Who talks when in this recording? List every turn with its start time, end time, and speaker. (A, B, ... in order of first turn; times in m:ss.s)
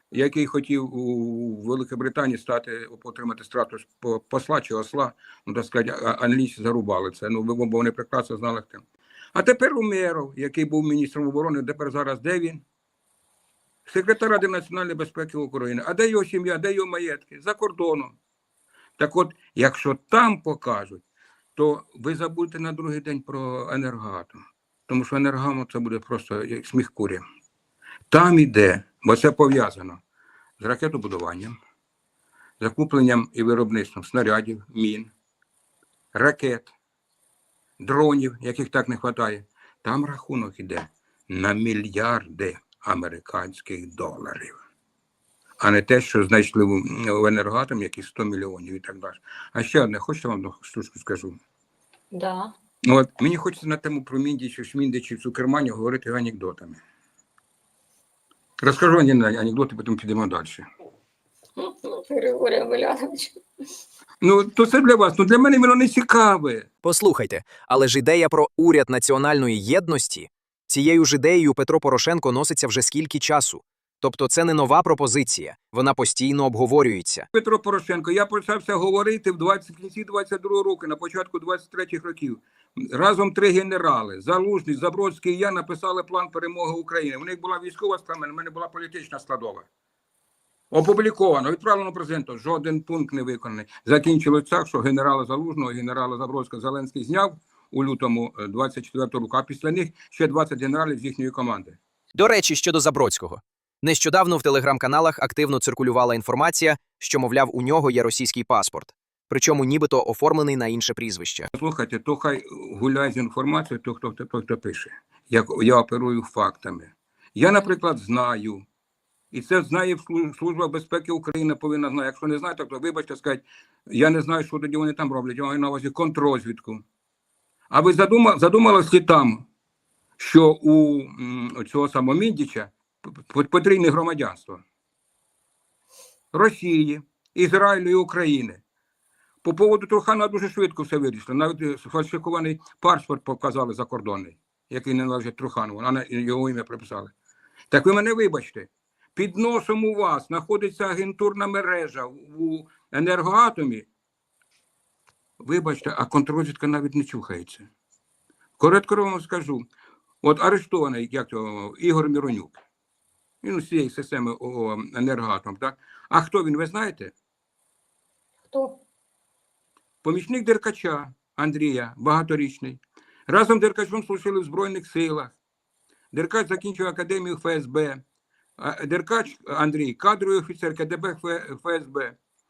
0:00.1-0:12.6 A
0:13.9-0:18.2 A
0:19.0-0:21.0 A
0:21.6-0:27.2 A
0:28.1-0:30.0 A
0:30.6-0:31.6 A
0:32.6-0:35.1 A
0:36.1-0:36.7 A
0:37.8-0:44.6 A
0:45.6-0:51.4 A
0:52.1-0:52.5 B
0:52.9-0:56.8 A
0:58.6-1:00.6 A
1:01.6-1:03.4 B
1:04.2-1:06.7 A
1:06.8-1:17.3 C
1:17.3-1:29.7 A
1:30.7-1:41.8 A
1:42.2-1:51.5 C
1:51.5-1:58.6 A
1:59.3-2:06.8 A
2:07.7-2:09.5 A
2:10.2-2:14.6 A
2:16.3-2:18.6 A
2:19.4-2:27.1 A
2:27.7-2:33.9 A
2:35.4-2:37.7 A
2:38.6-2:39.6 A
2:40.2-2:42.6 A
2:43.4-2:47.1 A
2:48.5-2:48.8 B
2:50.0-2:55.4 A
2:56.1-2:58.0 A
2:58.6-3:02.2 A